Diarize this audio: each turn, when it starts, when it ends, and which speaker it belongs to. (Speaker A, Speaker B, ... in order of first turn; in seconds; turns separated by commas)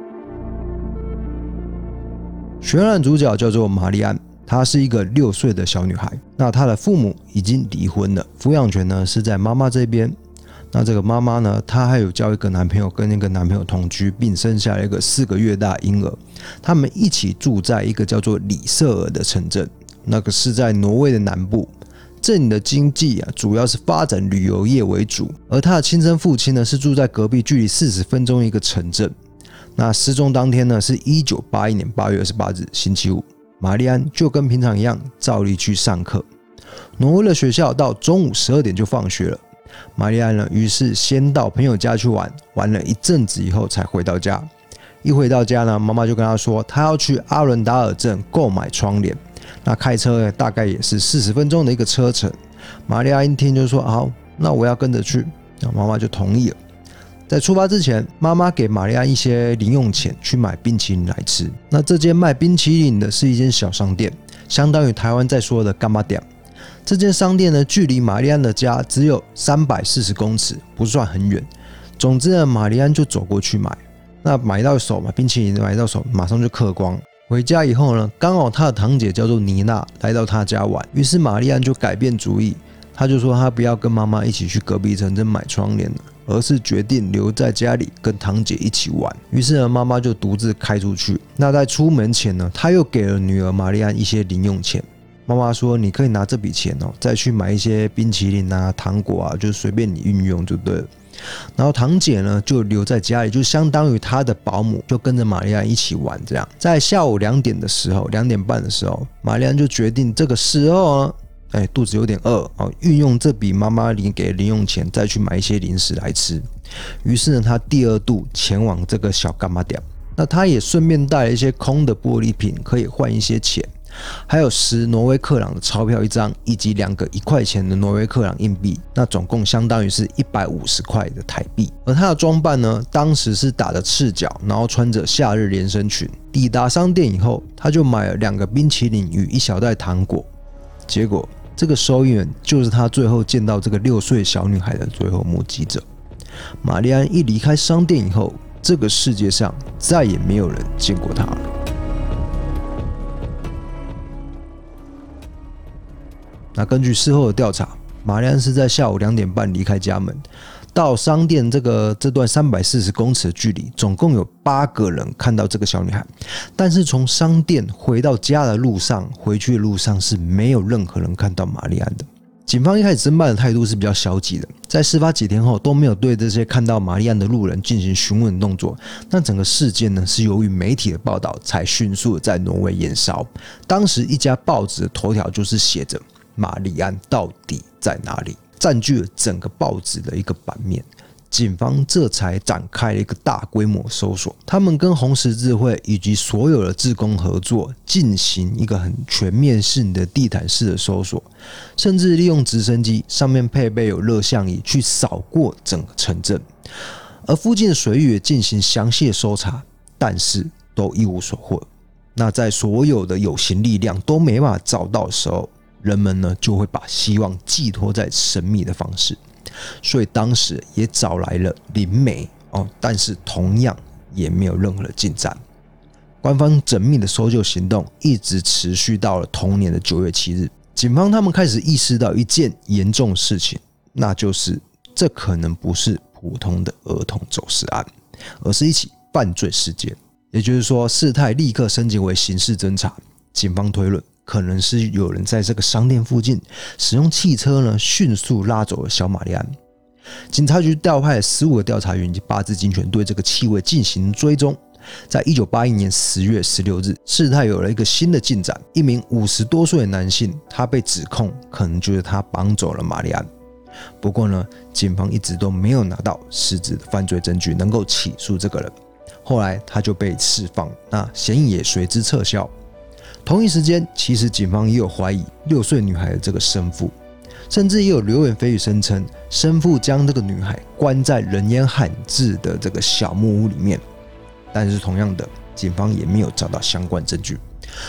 Speaker A: 2.6-10.1, Speaker A: 10.7-29.1, Speaker A: 29.8-36.2, Speaker A: 37.0-39.4, Speaker A: 40.0-44.5, Speaker A: 45.0-56.6, Speaker A: 57.3-66.2, Speaker A: 66.8-100.9, Speaker A: 101.5-116.5, Speaker A: 117.0-123.7, Speaker A: 124.3-140.3, Speaker A: 140.9-145.8, Speaker A: 146.6-151.5, Speaker A: 156.5-206.4, Speaker A: 207.2-219.2, Speaker A: 219.8-225.4, Speaker A: 226.2-237.9, Speaker A: 238.4-249.5, Speaker A: 250.3-263.3, Speaker A: 264.0-272.5, Speaker A: 273.2-276.9, Speaker A: 277.5-283.8, Speaker A: 284.5-287.4